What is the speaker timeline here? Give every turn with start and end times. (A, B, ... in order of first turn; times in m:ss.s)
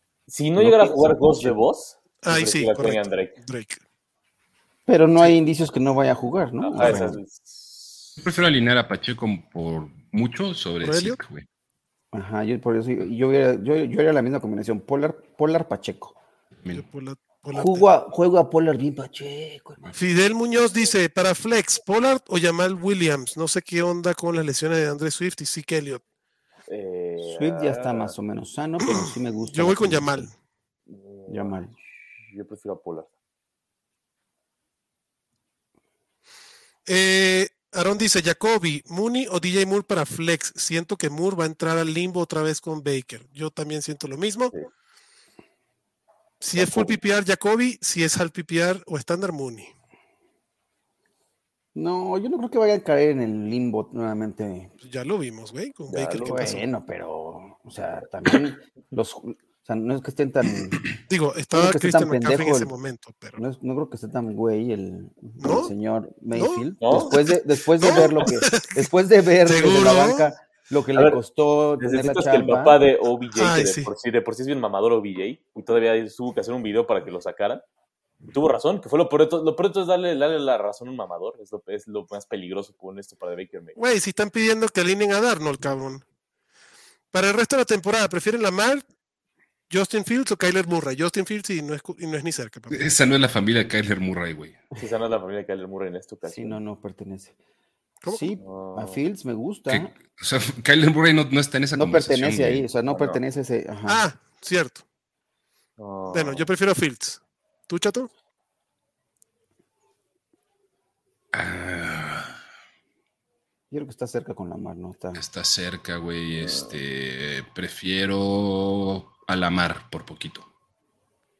0:00.3-0:03.4 A
0:00.6-0:01.6 B
0:02.2-0:03.8 C
0:04.9-0:07.2 B
0:06.6-0:08.2 A
0:08.2-0:11.5 D
0:10.8-0:11.2 C
0:12.1-0:16.2 B
0:16.7-0:17.8 C
0:17.5-0:20.0 B
0:19.9-0:26.0 C
0:26.7-0:28.2 A
0:27.2-0:30.3 B
0:28.8-0:30.3 C
0:30.9-0:31.6 A
0:31.3-0:31.7 B
0:32.2-0:33.1 A
0:36.9-0:44.5 C
0:46.4-0:49.7 C
0:46.6-0:47.0 A
0:51.8-0:54.7 B
0:54.8-0:56.6 C
0:55.9-0:56.6 A
0:56.2-1:00.8 B
1:01.1-1:03.4 C
1:01.5-1:02.7 B
1:03.4-1:12.8 B
1:05.4-1:05.7 C
1:06.3-1:08.8 C
1:06.8-1:07.2 A
1:09.4-1:10.3 C
1:11.8-1:17.6 A
1:13.4-1:13.9 C
1:18.3-1:23.8 A
1:23.8-1:26.0 C
1:27.1-1:28.8 C
1:29.7-1:32.9 C
1:32.7-1:34.6 D
1:34.8-1:36.6 A
1:36.3-1:37.4 B
1:38.0-1:38.4 C
1:38.1-1:39.9 B
1:38.4-1:39.0 A
1:39.7-1:42.7 D
1:41.7-1:44.0 B
1:42.9-1:43.2 A
1:43.9-1:44.8 C
1:45.8-1:46.5 A
1:46.1-1:48.1 C
1:51.3-1:52.4 D
1:53.7-1:55.2 B
1:55.2-2:00.5 D
1:56.3-1:56.8 A